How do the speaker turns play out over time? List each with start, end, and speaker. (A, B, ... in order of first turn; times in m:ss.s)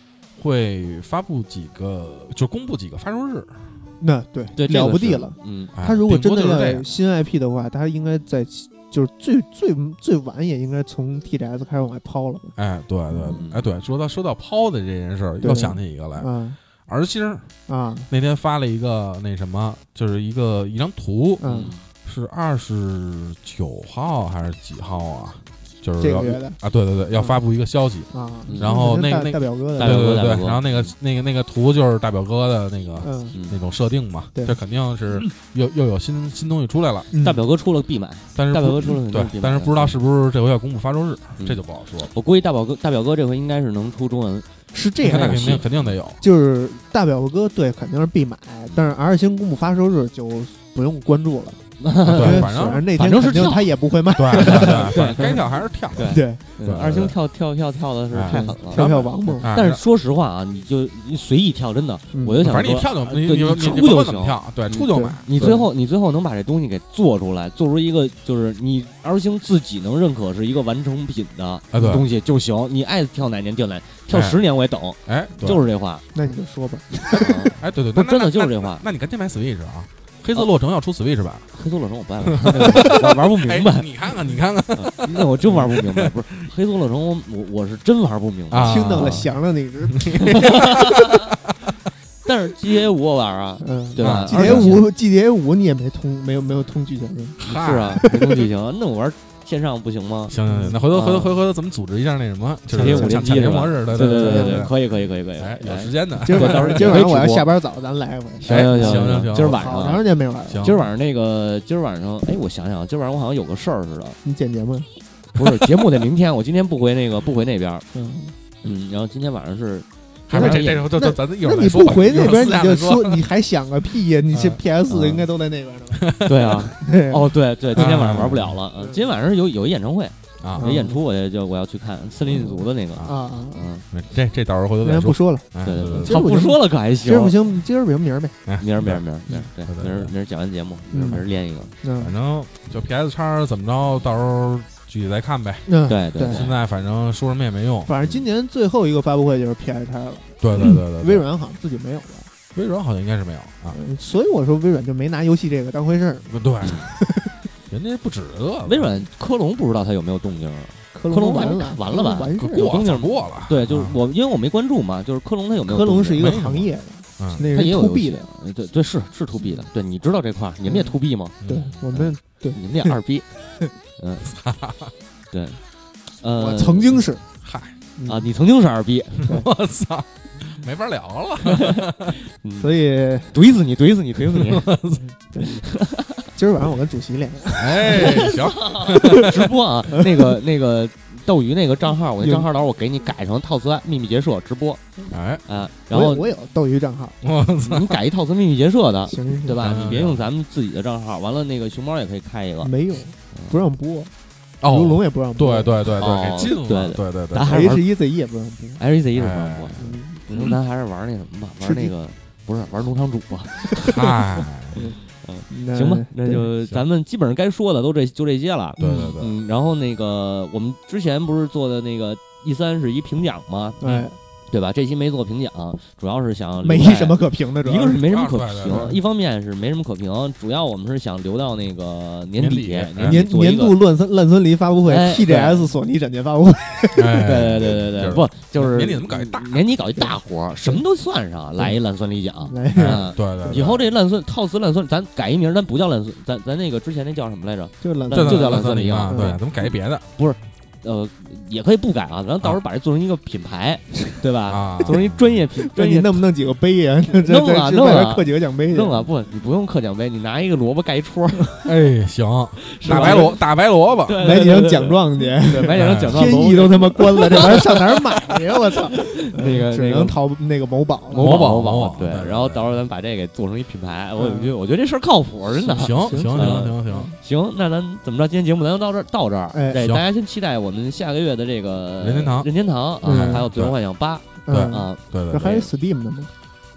0:00.4-0:03.7 A
0:04.0-0:12.6 B
0:04.6-0:05.7 C
0:05.8-0:06.9 A
0:12.6-0:17.5 A
0:13.1-0:13.4 B
0:13.3-0:13.7 C
0:15.4-0:16.6 B
0:17.7-0:18.1 B
0:18.1-0:37.1 A
0:21.4-0:21.7 B
0:21.4-0:21.8 C
0:26.0-0:26.6 B
0:27.2-0:27.4 B
0:28.1-0:30.1 B
0:28.5-0:28.8 C
0:29.8-0:31.0 C
0:33.0-0:33.4 B
0:33.3-0:33.6 C
0:37.1-0:37.4 B
0:37.2-0:40.0 C
0:38.4-0:42.1 A
0:41.4-0:44.5 C
0:44.7-0:45.7 B
0:45.0-0:46.2 A
0:45.0-0:45.9 C
0:46.2-0:55.5 B
0:51.8-0:53.7 C
0:52.0-0:53.6 A
0:54.1-0:57.2 A
0:54.3-0:58.9 C
0:56.1-0:56.4 B
0:58.1-0:59.8 A
0:58.3-0:59.5 B
0:59.4-1:16.0 C
1:02.1-1:02.8 B
1:02.4-1:05.6 A
1:04.7-1:05.7 B
1:11.7-1:12.1 A
1:14.1-1:14.4 A
1:15.0-1:15.6 A
1:16.1-1:17.6 B
1:17.2-1:18.8 C
1:17.6-1:21.6 A
1:21.5-1:23.9 C
1:22.4-1:26.5 A
1:24.7-1:29.3 C
1:28.5-1:29.3 A
1:28.6-1:30.7 B
1:29.9-1:31.2 A
1:30.4-1:31.2 C
1:32.2-1:34.8 C
1:33.6-1:37.4 B
1:34.0-1:34.8 A
1:37.4-1:38.1 A
1:37.4-1:40.4 C
1:40.3-1:44.8 A
1:40.4-1:40.8 B
1:40.9-1:41.4 C
1:42.7-1:47.5 C
1:42.8-1:44.7 B
1:45.4-1:47.2 A
1:46.2-1:50.7 B
1:48.4-1:49.8 A
1:48.4-1:50.0 C
1:50.5-1:50.9 A
1:50.6-1:54.2 C
1:54.2-1:54.9 B
1:55.4-1:57.8 C
1:57.9-1:58.4 B
1:58.6-2:00.9 C
2:00.3-2:03.3 A
2:00.3-2:07.4 B
2:04.3-2:04.6 A
2:04.9-2:05.2 C
2:05.9-2:06.5 A
2:06.2-2:13.8 C
2:07.8-2:08.6 A
2:08.8-2:09.0 B
2:10.4-2:10.8 A
2:10.6-2:11.0 B
2:12.3-2:13.7 B
2:13.9-2:16.2 A
2:14.8-2:18.4 B
2:15.6-2:17.4 C
2:18.5-2:19.0 A
2:18.6-2:21.7 C
2:19.6-2:20.1 A
2:20.9-2:21.2 B
2:21.8-2:22.1 B
2:22.0-2:27.9 A
2:25.7-2:26.5 B
2:25.9-2:26.6 C
2:27.9-2:32.3 B
2:30.4-2:31.3 A
2:32.5-2:33.8 A
2:33.7-2:37.4 B
2:36.3-2:36.9 A
2:37.7-2:39.1 A
2:38.7-2:46.2 C
2:40.9-2:43.0 B
2:42.2-2:44.0 A
2:45.6-2:48.3 B
2:46.2-2:47.5 A
2:47.5-2:51.4 C
2:49.4-2:49.7 B
2:50.6-2:53.0 B
2:51.4-2:51.7 A
2:51.9-2:53.3 C
2:54.0-2:54.3 C
2:54.3-2:54.9 A
2:55.3-2:55.6 C
2:56.2-2:57.0 C
2:56.4-2:57.2 B
2:57.4-2:57.8 A
2:58.0-2:58.3 B
2:58.0-2:59.3 C
2:59.3-3:02.1 A
3:02.4-3:02.7 C
3:02.6-3:03.4 B
3:03.3-3:04.7 C
3:04.3-3:05.0 A
3:05.4-3:06.3 C
3:06.4-3:08.2 B
3:07.6-3:09.5 A
3:07.9-3:14.8 C
3:12.2-3:12.5 B
3:15.1-3:15.4 A
3:15.5-3:16.3 C
3:15.9-3:17.2 B
3:17.2-3:18.0 A
3:17.6-3:22.7 C
3:19.1-3:20.0 B
3:19.6-3:20.2 A
3:22.6-3:24.1 B
3:23.3-3:23.6 C
3:24.6-3:27.8 A
3:24.7-3:25.8 B
3:26.0-3:27.8 C
3:27.4-3:28.8 B
3:28.8-3:34.2 C
3:29.1-3:30.5 A
3:29.8-3:30.2 B
3:31.6-3:31.9 B
3:33.8-3:34.8 A
3:34.7-3:43.8 C
3:35.5-3:36.5 B
3:38.8-3:39.2 B
3:38.8-3:39.3 A
3:43.8-3:44.2 B
3:44.5-3:53.8 C
3:46.6-3:48.1 B
3:48.0-3:49.0 A
3:48.7-3:49.0 B
3:52.4-3:53.2 A
3:53.0-3:57.4 B
3:54.9-3:55.7 C
3:57.0-3:59.6 A
3:57.2-4:16.2 C
4:02.5-4:03.7 B
4:02.8-4:03.8 A
4:07.8-4:09.4 B
4:08.1-4:10.1 A
4:14.5-4:15.4 A
4:15.6-4:19.0 B
4:17.2-4:21.7 C
4:21.6-4:24.2 A
4:22.6-4:23.4 C
4:22.8-4:23.4 B
4:24.0-4:30.2 C
4:24.2-4:31.5 B
4:25.7-4:26.2 A
4:31.1-4:45.6 C
4:31.2-4:32.7 A
4:34.2-4:34.5 B
4:35.5-4:37.1 B
4:35.7-4:37.1 A
4:39.5-4:39.8 B
4:39.8-4:40.0 A
4:42.0-4:42.5 A
4:43.0-4:43.8 A
4:43.0-4:43.5 B
4:44.5-4:46.3 B
4:44.5-4:45.6 A